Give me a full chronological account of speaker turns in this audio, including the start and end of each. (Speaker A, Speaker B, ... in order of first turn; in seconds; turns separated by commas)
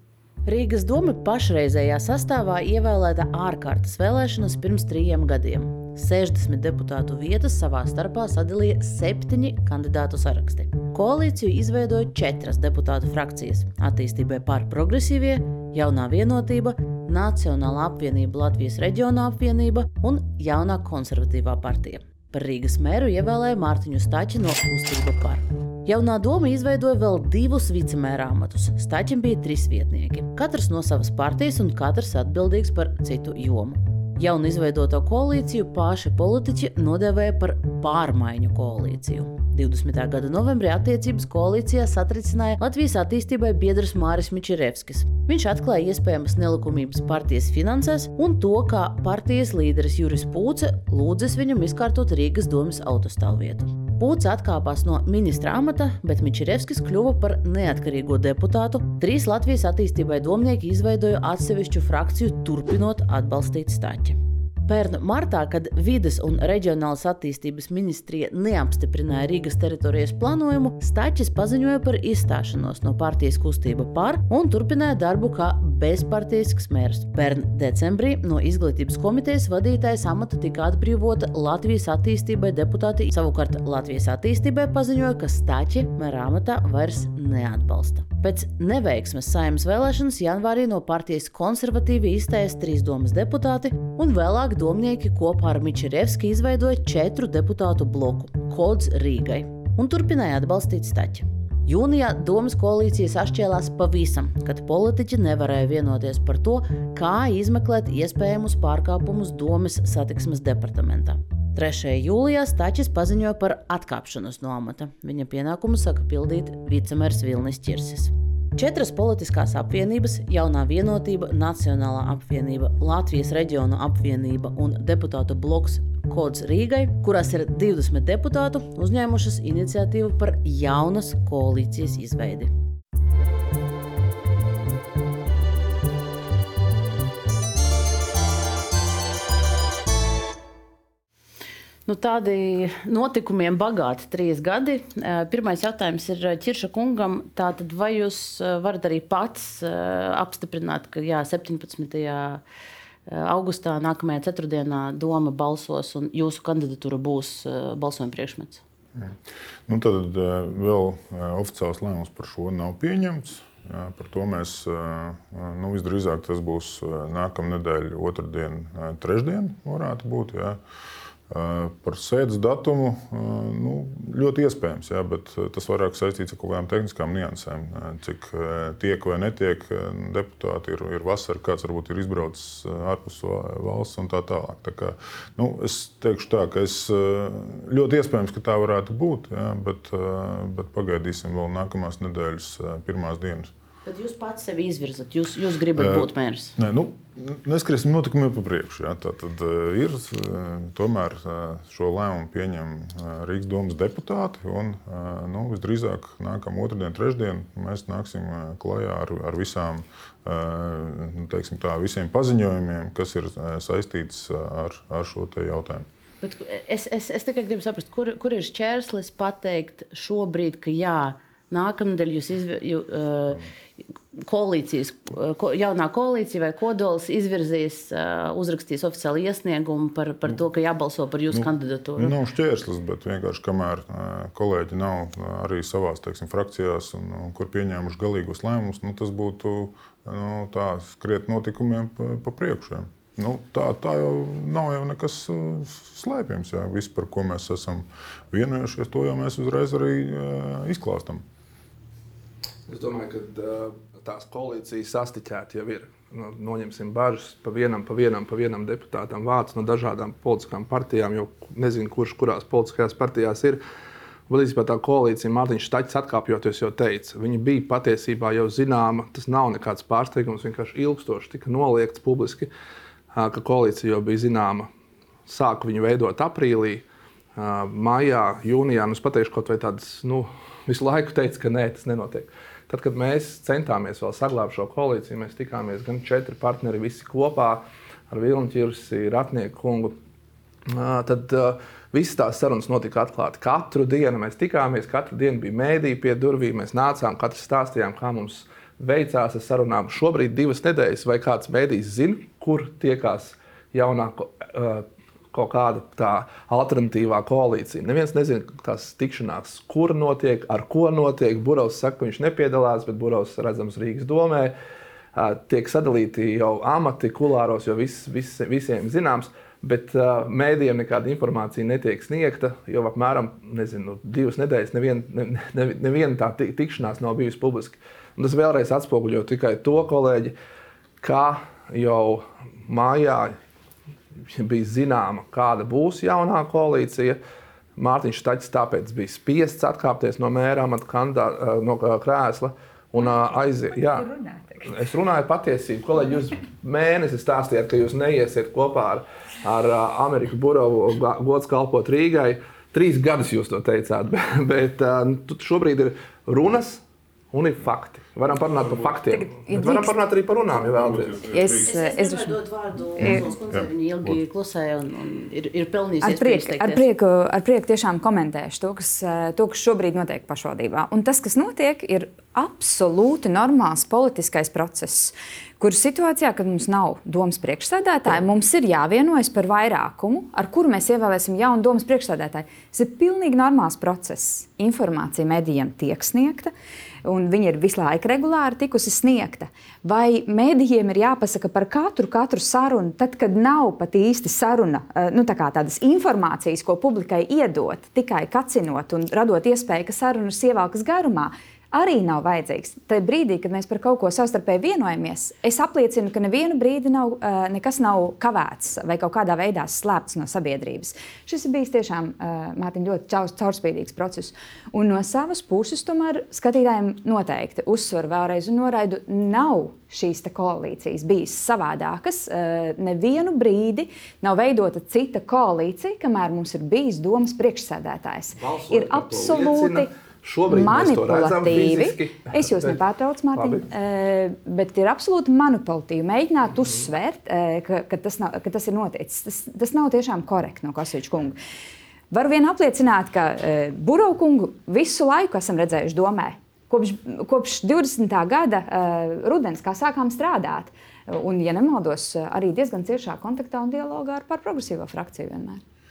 Speaker A: 0.5-132.5, Speaker A: 141.9-152.4, Speaker A: 153.1-158.6, Speaker B: 159.7-170.6, Speaker B: 171.3-193.5, Speaker A: 193.8-196.6, Speaker B: 195.8-215.8, Speaker A: 216.2-223.4, Speaker A: 224.2-232.2, Speaker B: 231.3-251.2, Speaker C: 252.7-263.6, Speaker C: 264.3-272.5, Speaker C: 273.1-274.7, Speaker C: 275.3-276.9, Speaker C: 277.4-289.9, Speaker C: 290.7-314.5, Speaker C: 315.1-330.4, Speaker C: 331.0-333.4, Speaker C: 334.3-337.2, Speaker C: 337.8-344.1, Speaker D: 343.0-344.8, Speaker C: 344.7-361.3, Speaker D: 359.4-359.9, Speaker B: 360.5-361.7, Speaker D: 361.3-362.4, Speaker A: 361.6-366.8, Speaker D: 363.0-363.2, Speaker B: 363.0-364.2, Speaker D: 366.0-386.5, Speaker D: 387.1-429.9, Speaker C: 428.4-432.8, Speaker D: 430.5-441.4, Speaker C: 433.4-433.7, Speaker D: 442.1-455.6